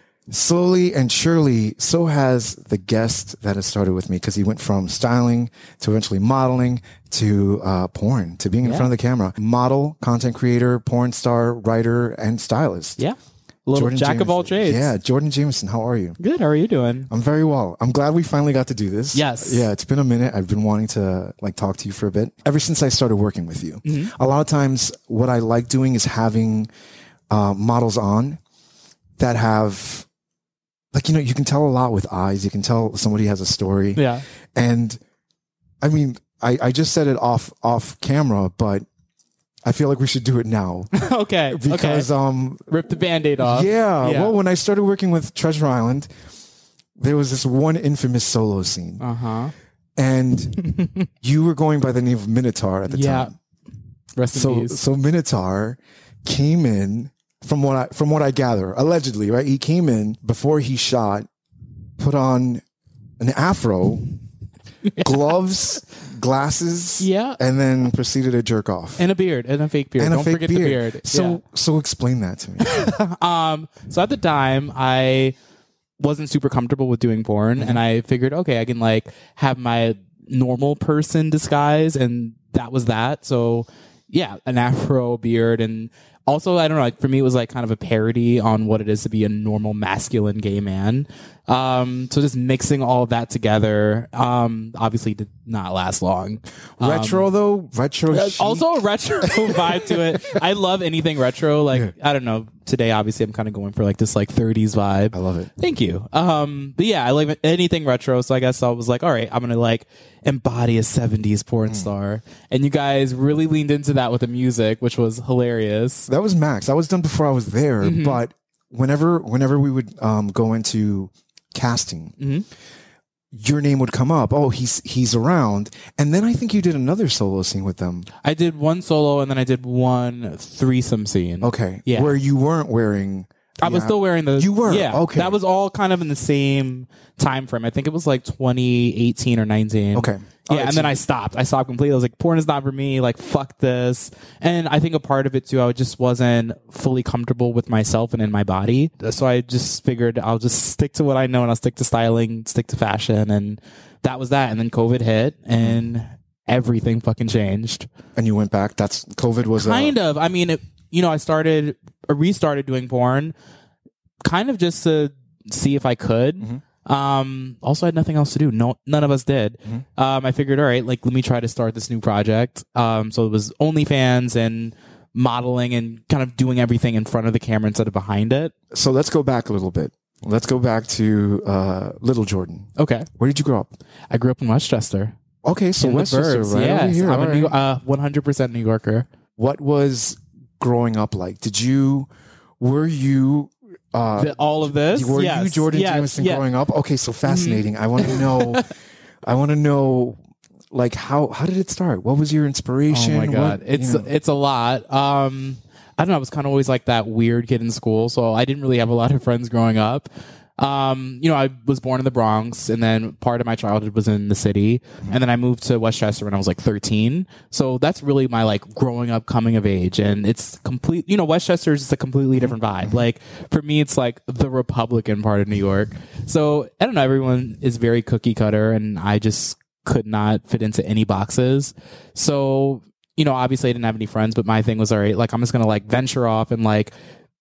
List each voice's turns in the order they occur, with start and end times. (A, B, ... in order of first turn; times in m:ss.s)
0:00.3-0:13.0 A
0:08.6-0:08.9 B
0:13.0-0:14.9 B
0:13.7-0:16.2 A
0:16.2-0:17.1 B
0:17.1-0:26.7 A
0:19.1-0:19.7 B
0:23.8-0:24.2 B
0:27.3-0:28.4 A
0:29.2-0:30.1 A
0:30.9-0:35.0 A
0:34.0-0:34.2 B
0:35.8-0:38.8 A
0:39.6-0:40.9 A
0:40.9-0:42.1 B
0:41.5-0:42.7 A
0:42.7-0:44.3 B
0:43.4-0:46.1 A
0:47.0-0:49.0 A
0:49.0-0:49.5 B
0:50.0-0:50.6 A
0:50.6-0:51.1 B
0:51.2-0:53.3 A
0:52.9-0:53.3 B
0:54.2-0:54.8 B
0:54.3-1:01.3 A
1:02.0-1:02.6 A
1:03.2-1:04.1 A
1:04.9-1:05.2 B
1:05.0-1:09.1 A
1:07.0-1:07.4 B
1:09.0-1:11.4 B
1:10.0-1:12.7 A
1:12.6-1:15.4 B
1:16.0-1:37.3 B
1:17.6-1:17.8 A
1:36.8-1:38.7 A
1:38.1-1:56.1 B
1:39.2-1:40.4 A
1:45.1-1:45.5 A
1:56.1-2:02.2 A
1:57.8-1:58.2 B
2:02.2-2:02.5 B
2:03.3-2:08.1 A
2:08.2-2:12.2 B
2:11.4-2:15.4 A
2:13.6-2:37.9 B
2:20.0-2:21.0 A
2:38.2-2:40.0 A
2:39.5-2:43.3 B
2:44.2-2:58.5 B
2:58.7-3:03.7 A
3:02.8-3:03.1 B
3:04.1-3:05.2 B
3:05.4-3:07.5 A
3:05.8-3:09.1 B
3:09.4-3:12.1 A
3:12.6-3:18.7 A
3:14.2-3:16.5 B
3:17.3-3:18.7 B
3:19.2-3:20.2 A
3:20.7-3:24.1 A
3:22.9-3:56.9 B
3:42.4-3:43.0 A